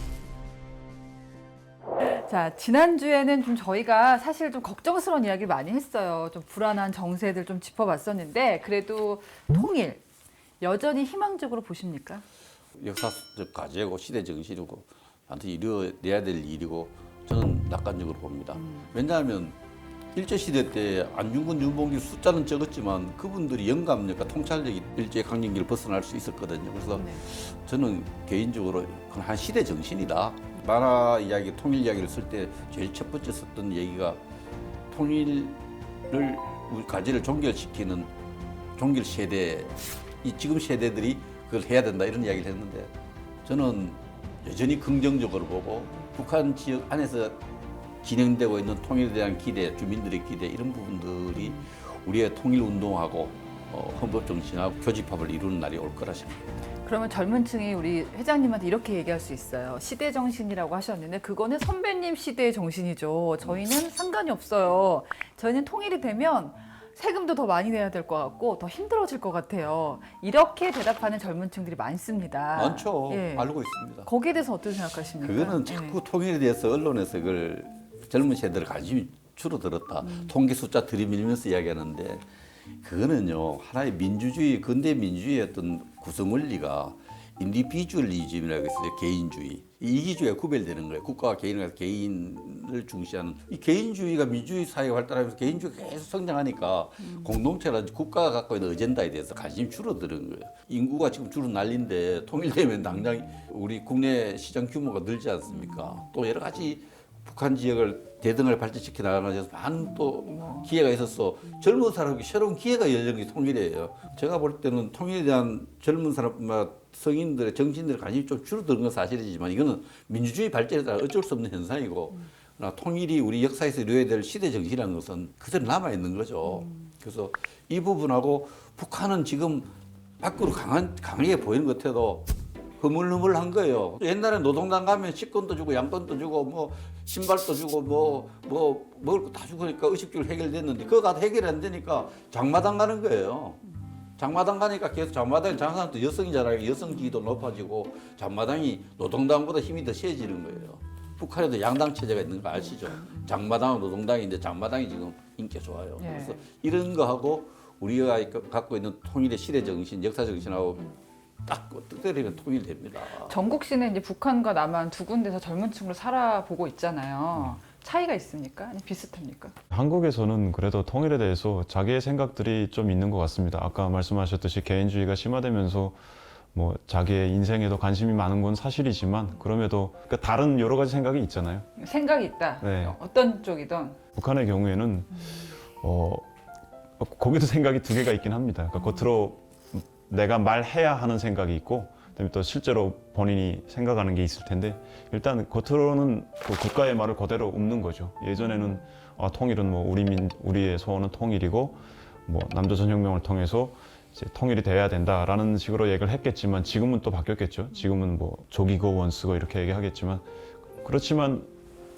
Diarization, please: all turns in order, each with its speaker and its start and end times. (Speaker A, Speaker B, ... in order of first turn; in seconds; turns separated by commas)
Speaker A: 2.0-10.0, Speaker A: 10.6-12.2, Speaker B: 12.8-19.6, Speaker A: 18.6-18.9, Speaker B: 20.1-34.2, Speaker A: 26.9-27.2, Speaker B: 34.9-38.1, Speaker B: 38.8-42.9, Speaker B: 43.5-47.4, Speaker B: 48.0-56.5, Speaker A: 56.9-73.5, Speaker B: 72.5-74.1, Speaker A: 74.0-76.0, Speaker B: 75.2-82.3, Speaker A: 80.0-80.3, Speaker B: 82.8-132.3, Speaker A: 110.3-110.7, Speaker B: 132.8-143.6, Speaker B: 144.2-160.9, Speaker A: 156.0-156.4, Speaker B: 161.5-163.4, Speaker A: 163.2-169.6, Speaker C: 169.7-181.7, Speaker A: 181.8-184.0, Speaker C: 182.6-183.0, Speaker C: 184.1-186.3, Speaker C: 187.0-210.3, Speaker C: 210.8-211.5